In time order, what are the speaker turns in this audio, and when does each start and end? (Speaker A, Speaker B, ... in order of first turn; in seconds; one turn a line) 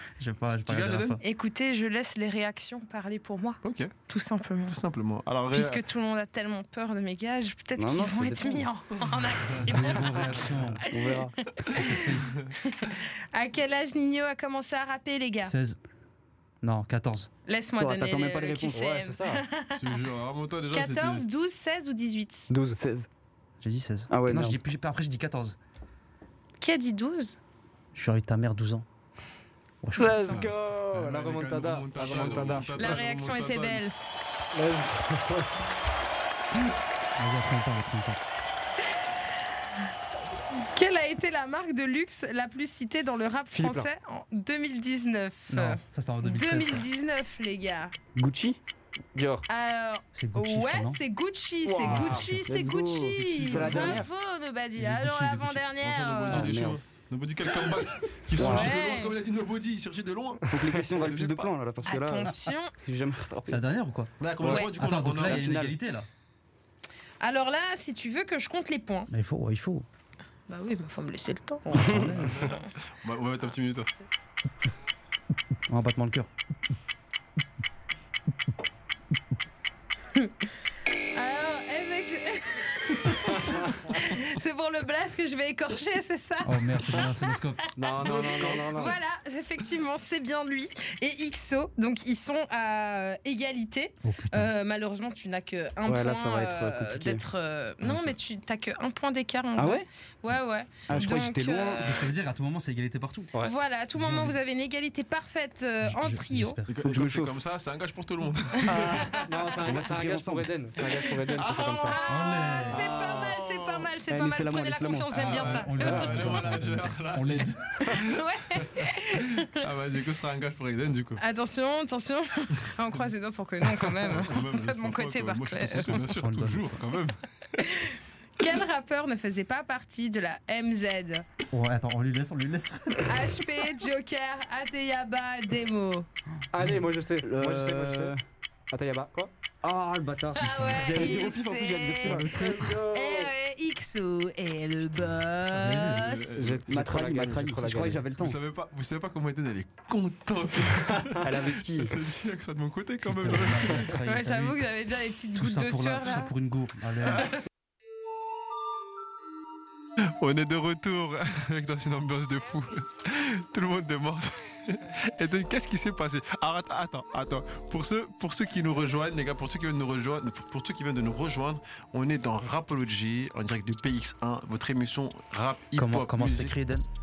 Speaker A: 0.2-1.2
Speaker B: 0.7-1.2
Speaker C: 1.2-4.8
Speaker B: 3.6-3.9
Speaker B: 4.7-5.8
Speaker C: 5.5-15.5
Speaker D: 7.8-8.7
Speaker A: 9.6-10.8
Speaker D: 10.9-11.3
Speaker A: 11.7-12.4
Speaker A: 15.4-15.8
Speaker A: 16.6-17.3
Speaker C: 17.5-20.0
Speaker D: 17.8-18.8
Speaker E: 18.7-19.4
Speaker B: 19.8-21.2
Speaker C: 20.7-22.5
Speaker E: 22.5-22.8
Speaker D: 22.7-23.1
Speaker A: 23.6-25.6
Speaker D: 24.1-24.6
Speaker C: 26.6-27.4
Speaker A: 27.9-28.9
Speaker A: 29.8-30.4
Speaker E: 30.0-33.0
Speaker B: 30.3-33.8
Speaker C: 32.7-33.9
Speaker E: 34.5-35.5
Speaker A: 37.2-38.2
Speaker C: 40.5-47.9
Speaker E: 43.5-43.9
Speaker A: 45.5-46.9
Speaker D: 48.1-48.6
Speaker E: 49.1-49.5
Speaker C: 49.5-56.6
Speaker A: 50.1-51.0
Speaker E: 51.6-52.3
Speaker A: 51.8-52.3
Speaker D: 51.9-54.1
Speaker E: 53.6-54.0
Speaker A: 54.8-55.6
Speaker B: 55.8-61.5
Speaker D: 56.3-56.8
Speaker D: 58.3-58.7
Speaker C: 58.4-59.2
Speaker D: 60.5-63.6
Speaker C: 61.8-62.7
Speaker A: 62.2-62.5
Speaker A: 63.5-66.1
Speaker B: 64.2-65.5
Speaker C: 64.4-64.7
Speaker D: 65.2-65.8
Speaker C: 67.2-69.1
Speaker A: 69.1-69.8
Speaker C: 70.5-72.6
Speaker A: 71.7-72.6
Speaker B: 72.1-73.9
Speaker A: 75.7-76.3
Speaker C: 81.1-102.1
Speaker A: 86.4-87.7
Speaker E: 87.8-89.0
Speaker B: 88.0-89.0
Speaker A: 94.0-94.5
Speaker E: 95.9-97.0
Speaker D: 96.7-97.2
Speaker A: 97.9-98.1
Speaker D: 99.6-99.8
Speaker D: 100.9-101.9
Speaker A: 100.9-101.2
Speaker A: 101.8-103.3
Speaker C: 103.4-106.6
Speaker A: 103.9-104.4
Speaker A: 105.8-106.8
Speaker B: 106.7-109.1
Speaker D: 106.8-107.3
Speaker C: 108.6-109.3
Speaker D: 108.7-110.5
Speaker E: 109.1-112.0
Speaker C: 111.3-116.0
Speaker B: 111.4-112.0
Speaker A: 112.0-112.9
Speaker E: 112.7-113.4
Speaker B: 113.1-113.9
Speaker D: 114.1-115.6
Speaker B: 115.1-121.2
Speaker A: 115.3-117.8
Speaker E: 115.8-116.4
Speaker C: 117.9-119.6
Speaker C: 121.2-126.1
Speaker B: 122.6-122.9
Speaker B: 124.0-127.2
Speaker A: 125.7-126.8
Speaker C: 127.5-131.2
Speaker A: 131.5-133.5
Speaker C: 133.1-136.1
Speaker E: 136.5-138.2
Speaker A: 136.6-136.8
Speaker D: 137.2-138.2
Speaker E: 138.7-139.3
Speaker D: 139.6-142.8
Speaker C: 140.3-142.3
Speaker A: 140.4-140.9
Speaker E: 142.0-143.3
Speaker C: 142.9-146.5
Speaker A: 144.8-146.1
Speaker B: 145.6-146.7
Speaker E: 146.3-148.0
Speaker D: 146.7-148.4
Speaker B: 148.1-153.9
Speaker D: 151.2-152.0
Speaker A: 153.0-154.7
Speaker C: 154.0-156.3
Speaker A: 155.3-157.3
Speaker B: 160.2-176.5
Speaker A: 175.8-176.9